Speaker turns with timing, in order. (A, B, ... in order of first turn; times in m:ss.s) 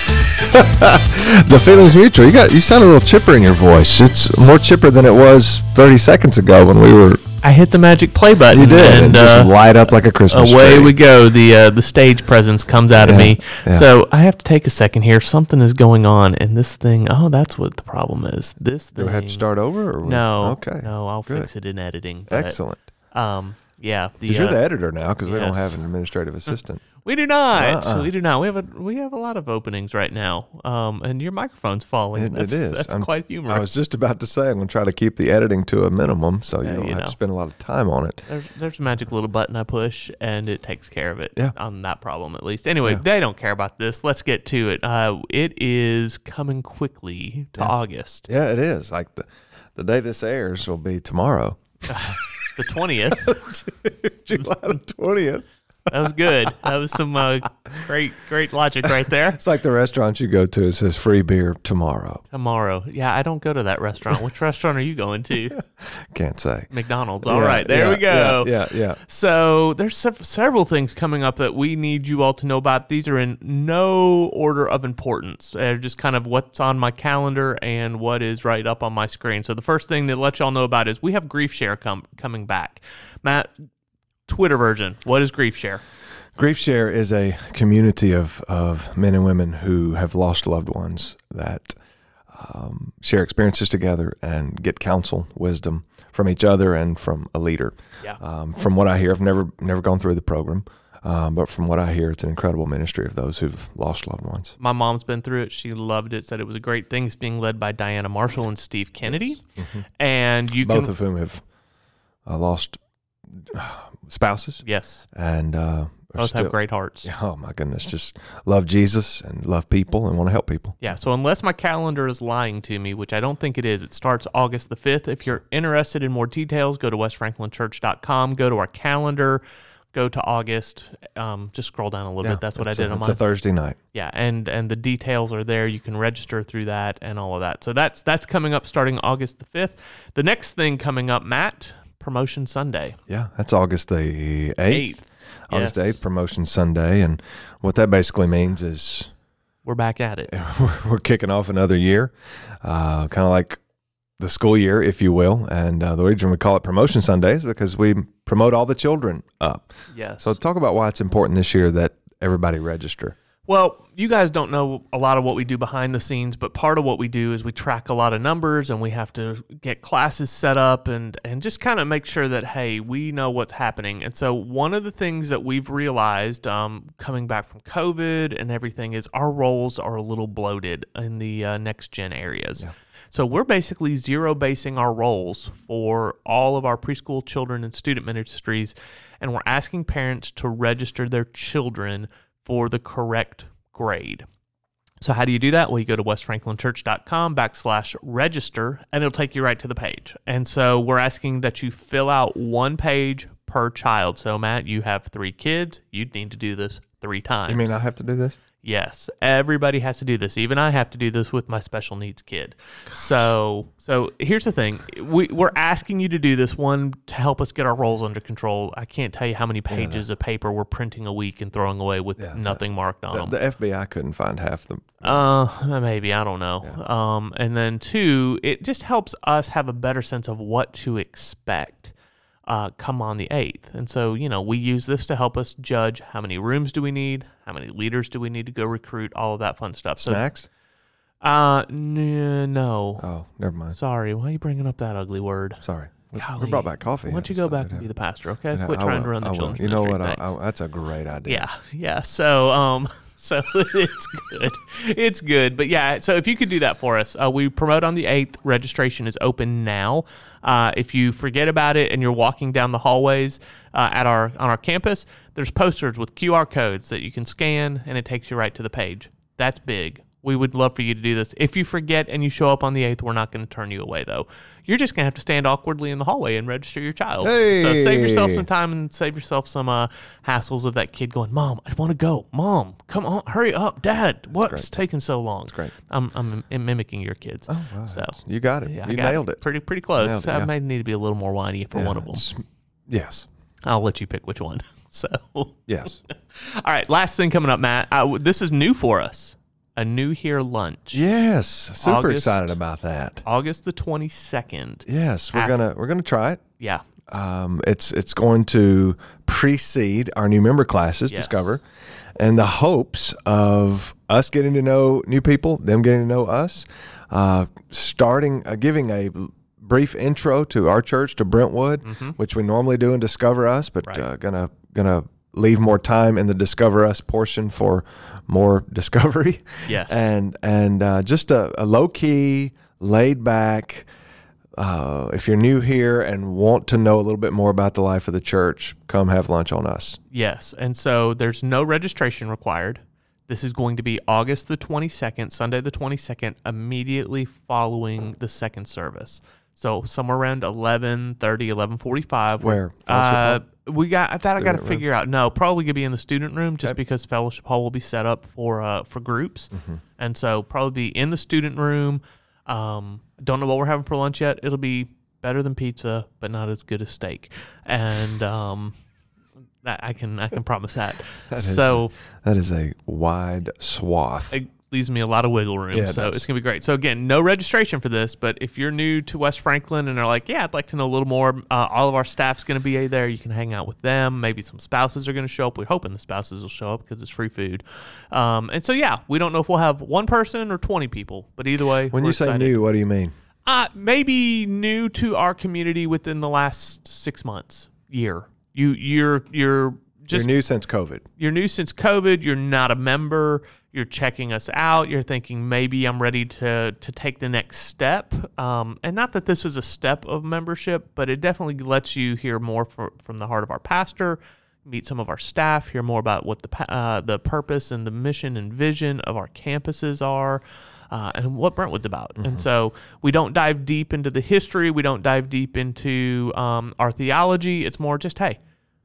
0:00.4-0:07.2 A
0:07.4-0:09.5 B
0:08.5-0:11.0 A
0:10.3-0:19.4 B
0:13.0-0:13.9 A
0:19.0-0:21.5 A
0:20.0-0:22.6 B
0:22.3-0:22.9 A
0:23.1-0:24.6 B
0:24.3-0:26.8 A
0:25.3-0:25.8 B
0:27.0-0:33.8 B
0:27.5-0:28.1 A
0:32.2-0:38.2 A
0:36.6-0:37.2 B
0:38.3-0:48.3 B
0:48.3-0:52.5 A
0:51.9-0:53.4 B
0:53.1-0:56.5 A
0:55.9-0:59.4 B
0:58.9-1:02.2 A
1:02.3-1:05.6 B
1:05.6-1:06.7 A
1:06.7-1:23.5 B
1:07.2-1:09.0 A
1:24.3-1:25.8 B
1:26.4-1:31.8 A
1:32.3-1:44.6 A
1:44.6-1:49.4 B
1:49.6-1:49.8 A
1:50.0-1:50.9 B
1:50.6-1:51.4 A
1:52.3-2:00.8 A
1:54.6-1:55.0 B
1:56.2-1:57.1 B
2:00.8-2:09.4 B
2:09.9-2:13.2 B
2:12.2-2:13.8 A
2:13.9-2:23.0 B
2:23.1-2:24.9 A
2:24.7-2:26.0 B
2:25.5-2:29.1 A
2:29.6-2:30.3 B
2:30.3-2:33.6 A
2:34.2-2:43.2 A
2:39.9-2:40.4 B
2:43.5-3:14.2 B
3:15.0-3:27.8 B
3:27.5-3:28.4 A
3:28.6-3:43.4 B
3:39.7-3:40.0 A
3:42.2-3:45.2 A
3:45.0-3:51.9 B
3:52.5-4:00.2 B
4:00.0-4:00.5 A
4:01.2-4:03.1 B
4:03.0-4:03.8 A
4:03.7-4:05.6 B
4:05.6-4:07.9 A
4:06.1-4:10.3 B
4:08.5-4:11.5 A
4:11.3-4:52.2 B
4:37.2-4:38.5 A
4:44.3-4:44.7 A
4:47.5-4:49.4 A
4:50.0-4:50.5 A
4:51.8-4:53.3 A
4:53.7-5:01.0 B
4:55.7-4:56.0 A
5:00.9-5:03.2 A
5:01.8-5:02.6 B
5:03.2-5:05.6 B
5:04.9-5:06.4 A
5:06.6-5:06.9 B
5:07.1-5:11.6 A
5:11.1-5:11.6 B
5:12.2-5:33.9 A
5:21.8-5:22.2 B
5:29.7-5:30.1 B
5:34.6-5:40.0 A
5:40.1-6:08.8 B
5:52.4-5:53.4 A
5:54.2-5:54.8 A
5:59.5-5:59.8 A
6:09.6-6:11.9 B
6:11.3-6:14.4 A
6:14.3-6:32.6 B
6:15.7-6:16.3 A
6:31.9-6:33.1 A
6:33.5-6:40.3 B
6:40.1-6:41.0 A
6:41.2-7:08.4 B
7:02.2-7:02.4 A